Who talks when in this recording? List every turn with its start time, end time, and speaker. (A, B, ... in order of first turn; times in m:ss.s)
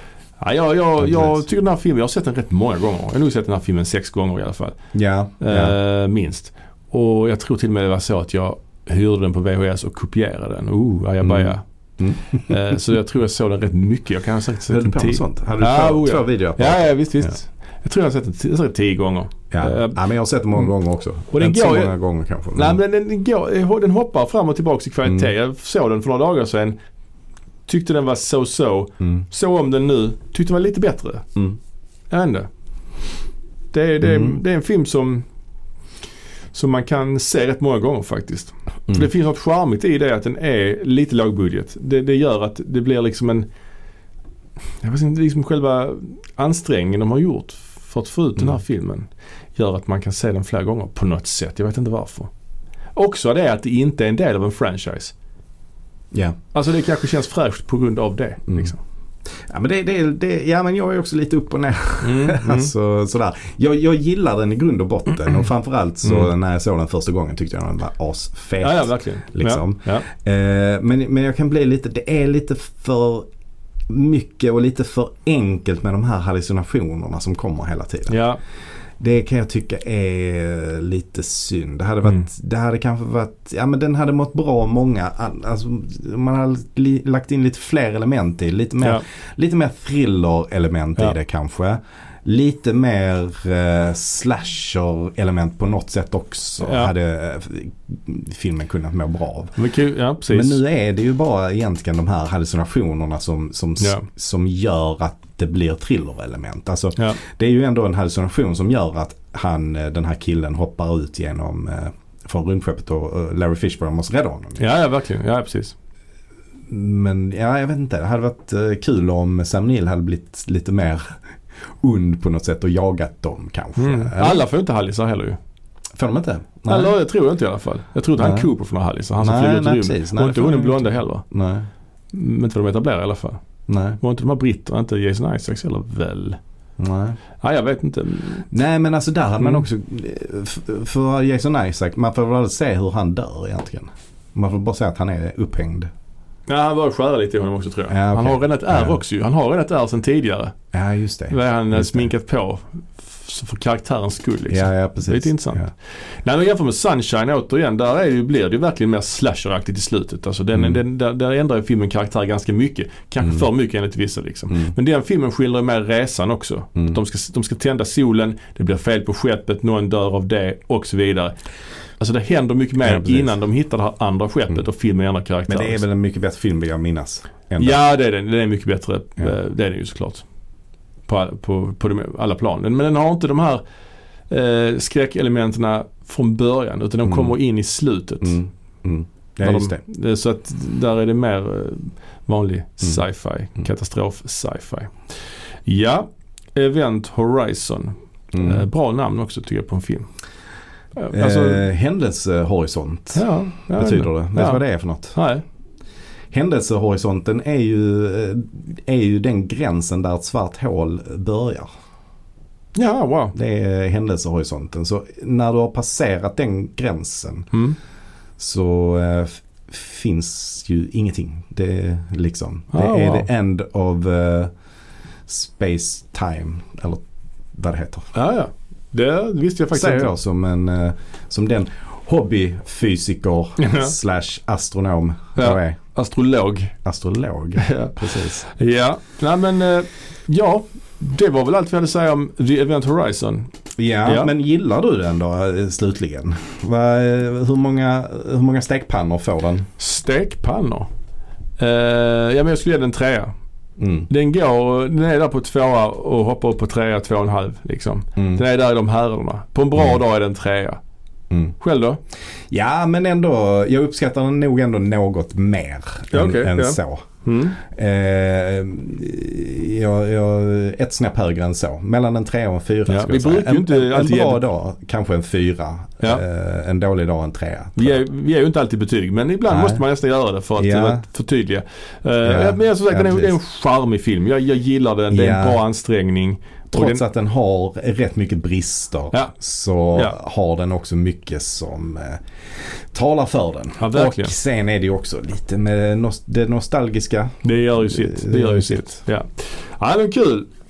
0:00.4-0:04.8 A
0:01.0-0:01.4 B
0:04.9-0:05.8 B
0:05.4-0:11.6 A
0:11.2-0:12.6 B
0:12.3-0:20.0 A
0:14.7-0:17.3 B
0:19.5-0:22.8 B
0:21.3-0:22.0 A
0:22.6-0:26.8 A
0:27.7-0:31.3 A
0:32.1-0:32.5 A
0:33.7-0:35.2 A
0:34.0-0:34.4 B
0:36.5-0:43.5 A
0:44.8-0:52.3 A
0:53.0-0:55.1 A
0:56.1-0:56.4 B
0:56.5-0:58.8 A
0:58.5-0:58.7 B
0:59.4-1:13.3 B
1:02.0-1:02.7 A
1:08.6-1:10.1 A
1:13.9-1:18.2 B
1:18.1-1:18.4 A
1:19.0-1:39.5 B
1:36.6-1:36.9 A
1:39.6-1:40.6 A
1:40.3-1:54.6 B
1:43.8-1:44.1 A
1:54.6-1:55.8 A
1:56.7-2:01.2 B
2:01.8-2:04.4 B
2:03.8-2:05.4 A
2:06.0-2:07.0 B
2:06.7-2:11.2 A
2:08.2-2:08.5 B
2:09.2-2:11.7 B
2:12.1-2:13.4 A
2:13.7-2:14.0 B
2:14.0-2:16.4 A
2:16.8-2:17.2 B
2:17.4-2:18.5 A
2:18.5-2:25.9 B
2:26.5-2:30.6 A
2:27.9-2:29.0 B
2:30.7-2:32.1 B
2:31.3-2:35.6 A
2:34.5-2:35.7 B
2:36.2-2:51.4 A
2:40.5-2:40.8 B
2:44.5-2:44.8 B
2:52.0-2:55.8 A
2:52.8-2:53.3 B
2:55.5-2:57.8 B
2:57.6-3:00.3 A
3:01.1-3:03.6 A
3:04.3-3:08.4 A
3:07.0-3:07.4 B
3:08.2-3:09.8 B
3:09.4-3:15.0 A
3:15.7-3:20.1 A
3:18.3-3:18.6 B
3:21.0-3:21.7 A
3:21.1-3:25.2 B
3:23.1-3:24.6 A
3:25.1-3:25.4 A
3:26.3-3:31.7 B
3:32.8-3:33.4 A
3:33.4-3:37.5 B
3:38.4-3:44.5 B
3:42.7-3:43.3 A
3:45.3-3:47.0 B
3:47.6-3:48.1 B
3:48.1-3:50.1 A
3:49.7-3:55.8 B
3:53.6-3:53.9 A
3:55.4-3:56.7 A
3:56.8-3:58.4 B
3:57.6-4:03.5 A
4:03.8-4:09.7 B
4:04.0-4:04.3 A
4:09.8-4:10.9 A
4:11.6-4:13.3 A
4:13.8-4:14.1 B
4:14.1-4:20.8 A
4:18.2-4:18.4 B
4:21.3-4:21.6 B
4:21.6-4:22.0 A
4:22.5-4:27.1 B
4:26.1-4:27.6 A
4:27.6-4:38.0 B
4:32.9-4:34.4 A
4:37.8-4:47.0 A
4:39.5-4:39.8 B
4:40.6-4:41.0 B
4:42.2-4:43.4 B
4:45.1-4:45.6 B
4:46.7-4:59.0 B
4:53.8-4:54.4 A
4:57.4-5:00.5 A